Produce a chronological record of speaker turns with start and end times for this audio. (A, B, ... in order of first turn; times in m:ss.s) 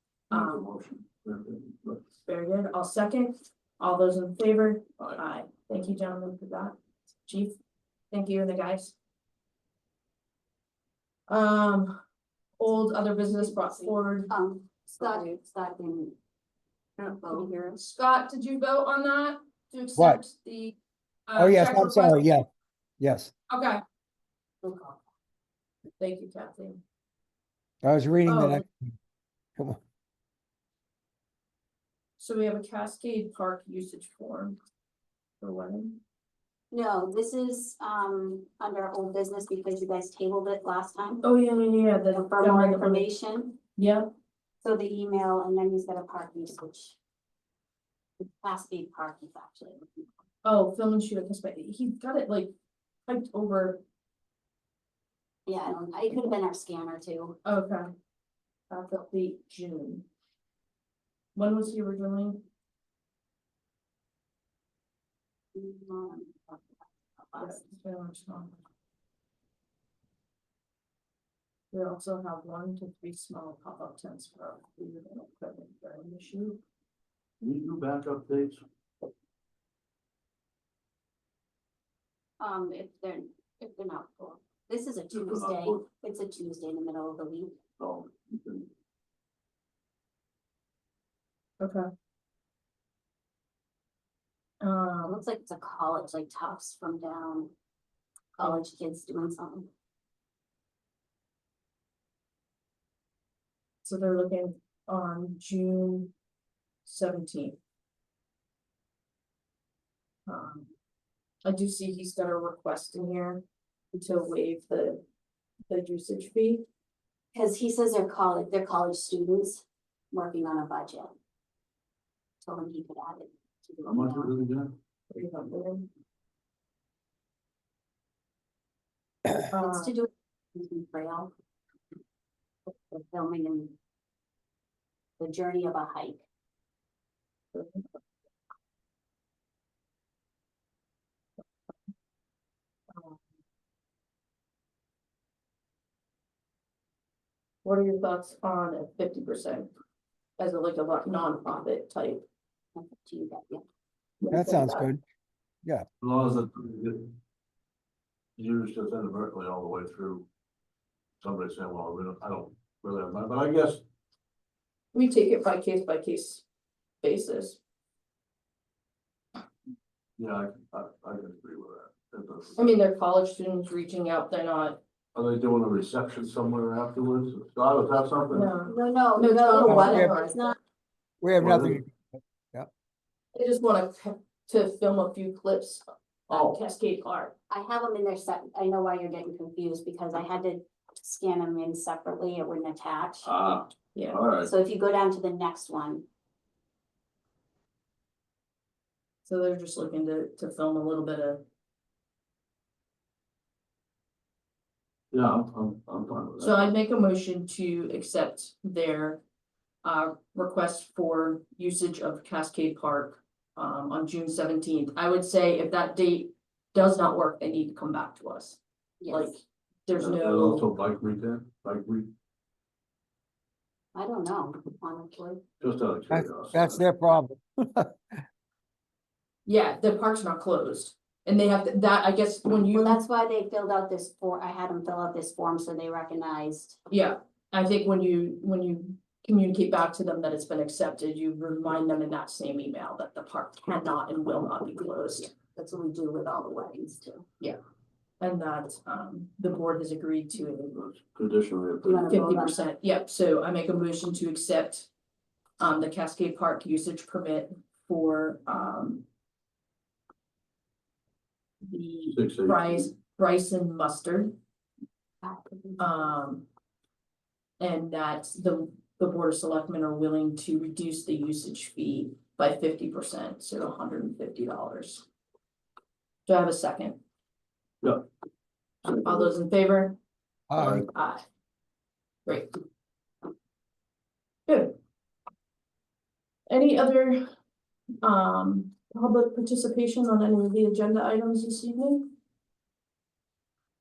0:00.3-0:02.0 A
0:00.3-0:00.7 B
0:02.2-0:07.6 B
0:08.1-0:09.0 B
0:11.3-0:12.0 B
0:12.6-0:14.3 B
0:13.4-0:16.2 C
0:17.0-0:17.8 C
0:17.3-0:22.3 B
0:20.0-0:20.2 D
0:21.4-0:22.5 D
0:23.0-0:23.3 D
0:23.5-0:23.8 B
0:24.6-0:25.0 C
0:26.0-0:26.8 B
0:27.8-0:28.9 D
0:28.3-0:28.6 B
0:32.2-0:34.6 B
0:35.4-0:36.0 B
0:36.7-0:41.2 C
0:41.2-0:43.1 B
0:42.1-0:43.6 C
0:43.8-0:44.1 B
0:44.6-0:47.0 C
0:48.2-0:50.0 C
0:50.4-0:52.5 B
0:53.1-0:53.8 B
0:55.5-0:57.4 C
0:57.4-0:57.9 B
0:58.7-1:00.1 B
1:01.4-1:02.4 B
1:05.6-1:07.7 C
1:07.4-1:08.6 B
1:11.7-1:16.6 B
1:17.4-1:18.6 A
1:22.4-1:27.6 C
1:25.1-1:25.8 A
1:27.8-1:28.7 A
1:31.6-1:31.9 B
1:34.6-1:35.2 B
1:35.0-1:37.5 C
1:38.4-1:39.7 C
1:43.8-1:46.1 B
1:46.8-1:47.6 B
1:50.3-1:50.7 B
1:51.4-1:53.4 B
1:53.9-1:55.0 B
1:55.7-1:56.6 B
1:57.3-2:01.2 C
2:02.4-2:04.3 C
2:03.8-2:04.7 A
2:05.1-2:05.9 B
2:09.5-2:10.0 B
2:09.5-2:11.3 C
2:12.9-2:13.8 C
2:15.2-2:16.2 C
2:17.5-2:17.9 B
2:22.9-2:23.2 B
2:27.6-2:29.7 B
2:30.4-2:32.2 B
2:32.8-2:33.6 C
2:34.2-2:34.9 B
2:34.3-2:35.0 D
2:36.0-2:37.1 A
2:38.4-2:40.3 A
2:41.2-2:43.8 A
2:44.9-2:46.4 B
2:47.0-2:47.6 B
2:50.2-2:52.8 A
2:52.6-2:54.8 B
2:55.1-2:58.7 A
2:58.3-3:00.5 B
2:58.7-3:00.6 C
2:59.6-3:00.1 D
3:01.2-3:02.7 D
3:01.4-3:01.8 A
3:03.4-3:07.3 B
3:06.3-3:06.6 A
3:07.5-3:13.3 C
3:13.2-3:14.5 A
3:13.9-3:14.2 B
3:14.4-3:16.1 C
3:19.2-3:21.4 B
3:25.1-3:26.7 A
3:26.4-3:29.2 B
3:29.8-3:40.7 B
3:39.0-3:39.3 C
3:40.0-3:42.1 A
3:44.0-3:45.4 C
3:45.6-3:46.8 A
3:46.1-3:48.2 D
3:49.5-3:53.0 B
3:52.7-3:56.8 C
3:56.9-4:05.4 B
4:05.5-4:07.3 C
4:08.2-4:10.8 B
4:10.7-4:12.1 A
4:11.8-4:12.6 C
4:12.1-4:14.9 B
4:15.6-4:19.0 B
4:21.6-4:24.3 B
4:22.1-4:22.7 A
4:25.2-4:26.1 C
4:25.8-4:26.5 B
4:27.6-4:35.1 B
4:36.3-4:37.0 B
4:38.8-4:40.0 B
4:40.5-4:40.8 D
4:40.6-4:40.8 A
4:40.9-4:41.2 B
4:42.3-4:42.6 B
4:44.5-4:44.8 B
4:46.5-4:47.3 B
4:48.0-4:52.1 B